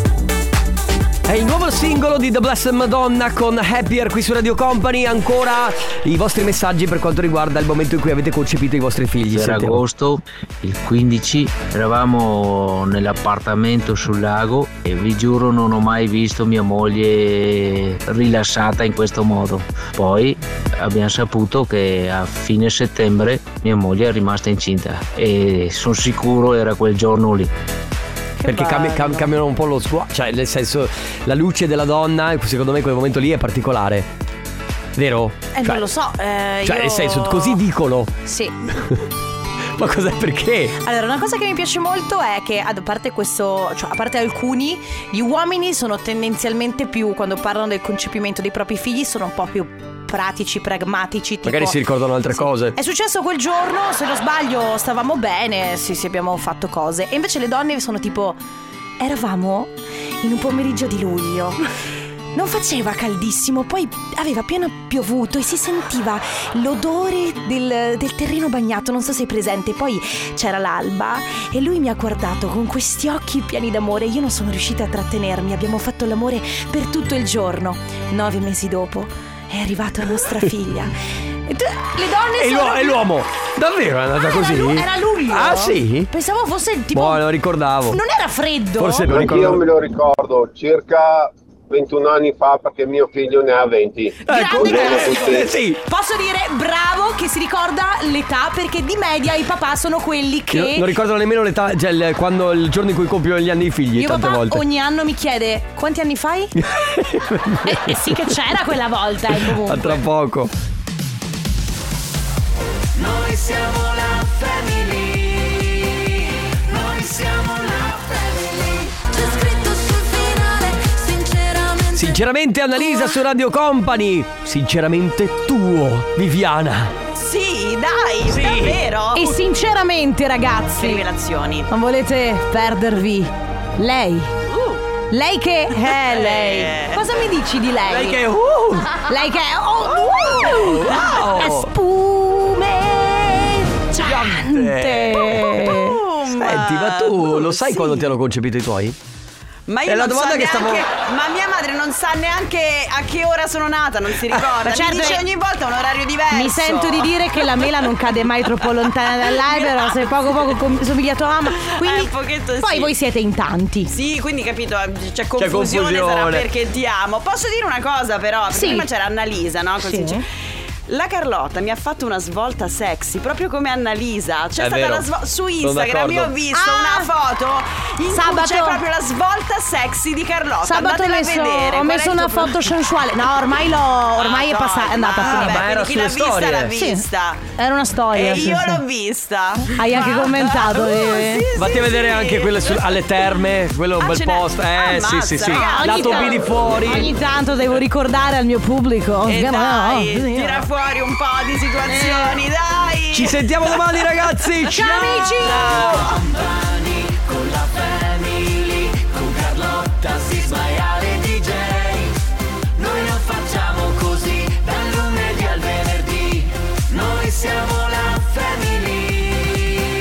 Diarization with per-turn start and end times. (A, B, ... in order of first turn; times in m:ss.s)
0:01.3-0:09.8 A
0:09.3-0:27.5 B
0:28.4-0:29.3 C
0:28.4-0:34.1 A
0:35.0-0:35.9 A
0:35.5-0:37.6 C
0:36.6-0:38.1 A
0:38.2-0:38.6 C
0:39.8-0:40.8 A
0:40.8-0:51.8 C
0:51.4-0:52.8 A
0:52.3-0:58.4 C
0:59.0-1:01.6 C
1:02.3-1:20.9 C
1:20.2-1:20.5 A
1:21.4-1:23.1 C
1:22.4-1:26.1 A
1:24.2-1:27.2 C
1:26.9-1:28.0 A
1:27.9-1:29.1 C
1:28.8-1:29.6 A
1:29.1-1:31.2 D
1:31.7-1:34.1 D
1:34.2-1:35.8 A
1:34.3-1:40.9 C
1:40.5-1:44.6 A
1:44.0-1:46.5 C
1:46.6-1:48.3 A
1:47.6-1:50.0 C
1:49.3-1:50.5 A
1:53.0-1:55.7 E
1:56.7-2:02.2 E
2:01.9-2:06.9 A
2:07.1-2:09.3 F
2:08.2-2:08.8 A
2:09.1-2:11.0 C
2:10.8-2:11.7 F
2:11.7-2:14.3 C
2:14.5-2:14.8 F
2:15.1-2:18.2 C
2:16.1-2:17.0 F
2:17.9-2:19.0 A
2:19.0-2:26.0 C
2:20.2-2:21.7 A
2:24.0-2:29.0 A
2:25.6-2:27.3 F
2:27.3-2:28.1 C
2:29.7-2:37.1 F
2:29.8-2:30.8 A
2:34.6-2:35.2 C
2:36.3-2:43.9 C
2:39.2-2:40.0 F
2:41.8-2:42.9 F
2:43.9-2:50.2 F
2:45.4-2:46.5 A
2:48.5-2:48.9 C
2:49.8-2:50.2 C
2:50.9-3:02.6 F
2:54.6-2:56.3 A
2:56.5-2:57.1 C
2:58.1-2:58.8 C
3:00.6-3:05.7 C
3:04.2-3:07.4 F
3:05.2-3:06.7 A
3:06.7-3:07.0 C
3:07.6-3:08.8 C
3:08.1-3:13.0 F
3:09.7-3:11.4 C
3:11.5-3:17.1 A
3:14.0-3:16.4 F
3:15.4-3:20.7 C
3:19.2-3:23.4 F
3:21.9-3:22.4 C
3:23.1-3:25.9 A
3:24.7-3:26.0 C
3:25.4-3:26.2 F
3:26.3-3:28.8 E
3:29.8-3:30.1 A
3:30.2-3:32.1 E
3:32.8-3:39.4 E